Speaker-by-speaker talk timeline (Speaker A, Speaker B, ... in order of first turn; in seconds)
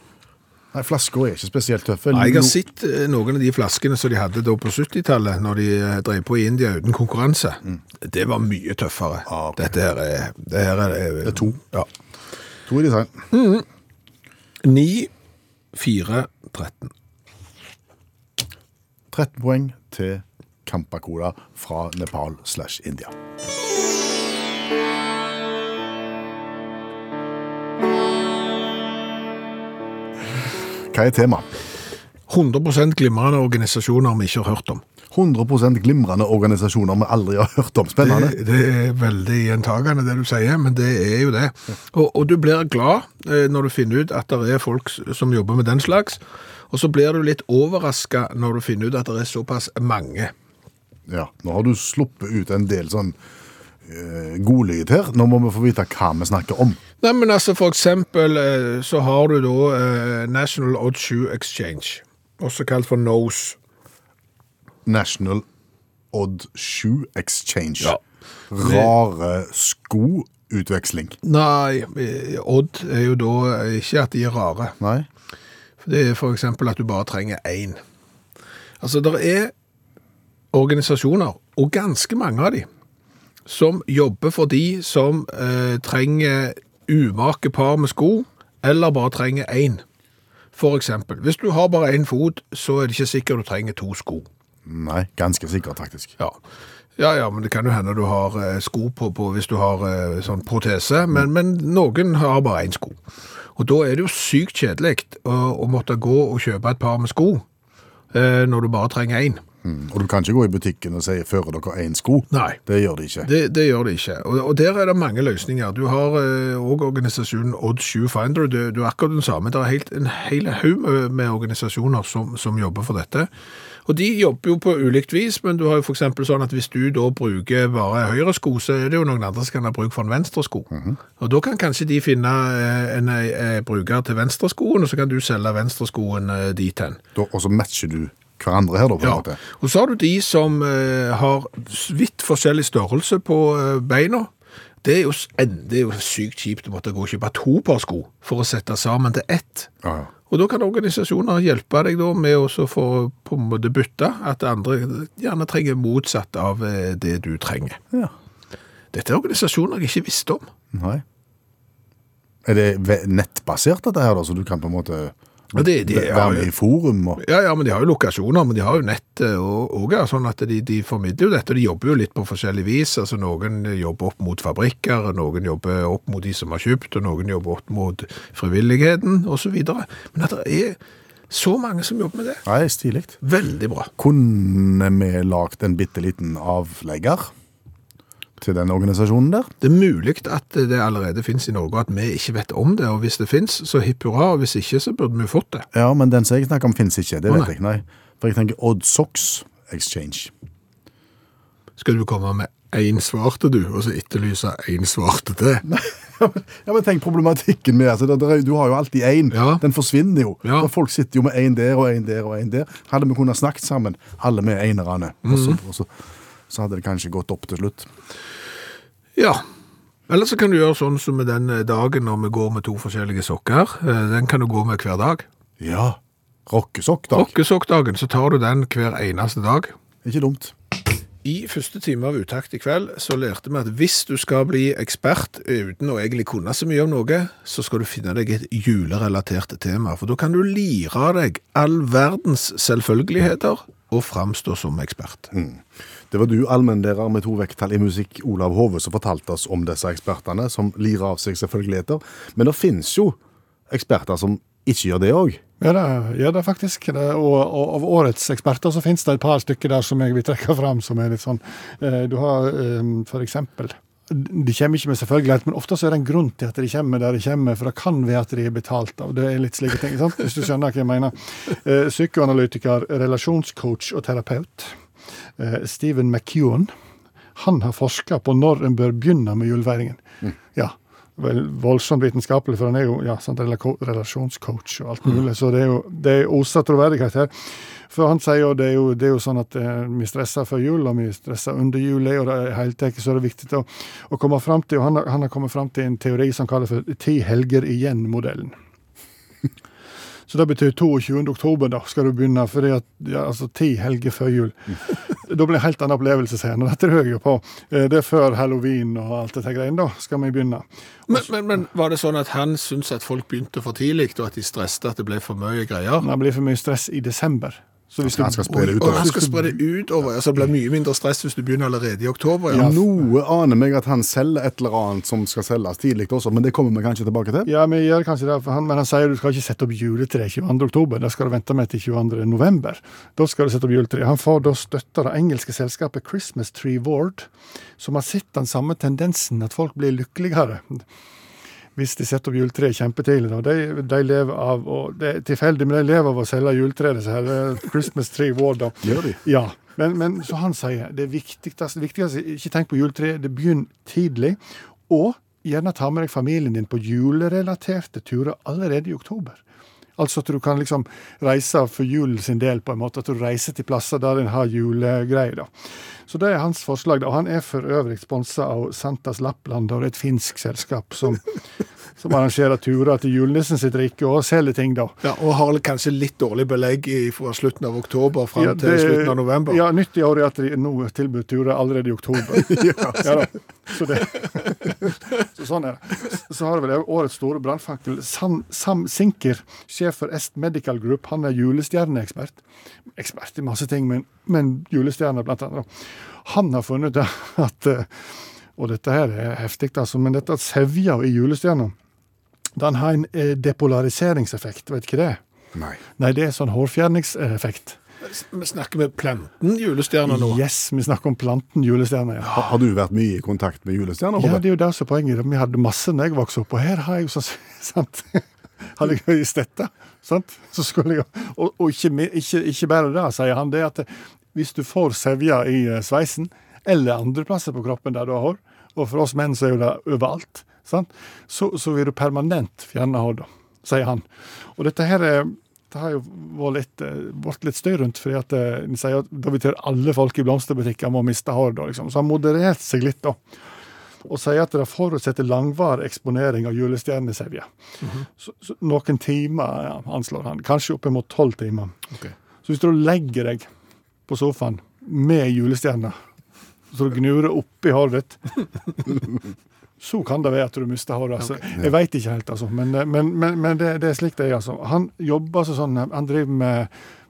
Speaker A: 0.7-2.6, 9.3-9.7, 11.2-11.6, 12.7-13.2, 19.1-23.1, 30.9-31.5, 35.1-38.4, 51.1-53.2, 53.9-56.8, 64.9-65.5, 66.1-68.0, 68.5-71.2, 74.8-75.1, 94.7-96.2, 109.6-113.3, 130.7-131.0, 137.2-139.4, 149.8-150.1, 160.7-161.0, 162.4-167.2, 182.5-183.2, 184.0-187.3, 188.4-189.5, 195.7-200.3, 205.7-215.9, 216.5-217.9, 225.6-227.3, 230.0-230.5, 245.3-253.2, 253.7-255.4, 318.0-319.1, 322.5-327.5, 348.8-349.2, 382.3-383.3, 405.6-405.8, 412.3-414.4
Speaker B: 2.1-11.9, 13.3-13.7, 14.6-15.1, 15.7-16.9, 32.3-34.8, 38.0-50.3, 57.0-63.6, 68.6-68.9, 71.2-74.8, 75.8-77.8, 78.8-79.5, 80.5-82.7, 83.5-89.8, 90.5-94.3, 97.0-103.0, 103.6-107.4, 108.1-109.4, 112.3-112.6, 113.2-123.3, 123.9-137.0, 139.0-144.3, 144.8-149.7, 150.3-157.8, 158.9-160.5, 165.5-166.5, 167.2-180.8, 181.3-182.4, 183.2-183.9, 189.6-195.7, 201.8-205.7, 209.3-209.6, 210.4-210.7, 215.3-215.6, 219.2-219.4, 220.1-225.3, 227.1-229.7, 231.2-245.3, 311.1-316.1, 318.5-322.8, 375.0-379.6, 408.1-410.4
Speaker C: 255.6-274.7, 275.4-276.7, 277.4-280.0, 280.5-287.3, 287.9-298.5, 300.3-310.6, 316.0-319.6, 322.5-322.8, 327.5-340.8, 341.8-359.4, 360.0-365.5, 366.1-371.3, 372.0-374.9, 378.4-392.4, 393.0-395.7, 396.2-397.9, 398.6-401.7, 402.6-405.2, 406.0-407.8, 410.1-412.5, 414.0-443.2, 444.1-447.5, 448.2-451.8, 452.4-453.5, 454.1-456.0, 456.7-459.1, 459.8-466.7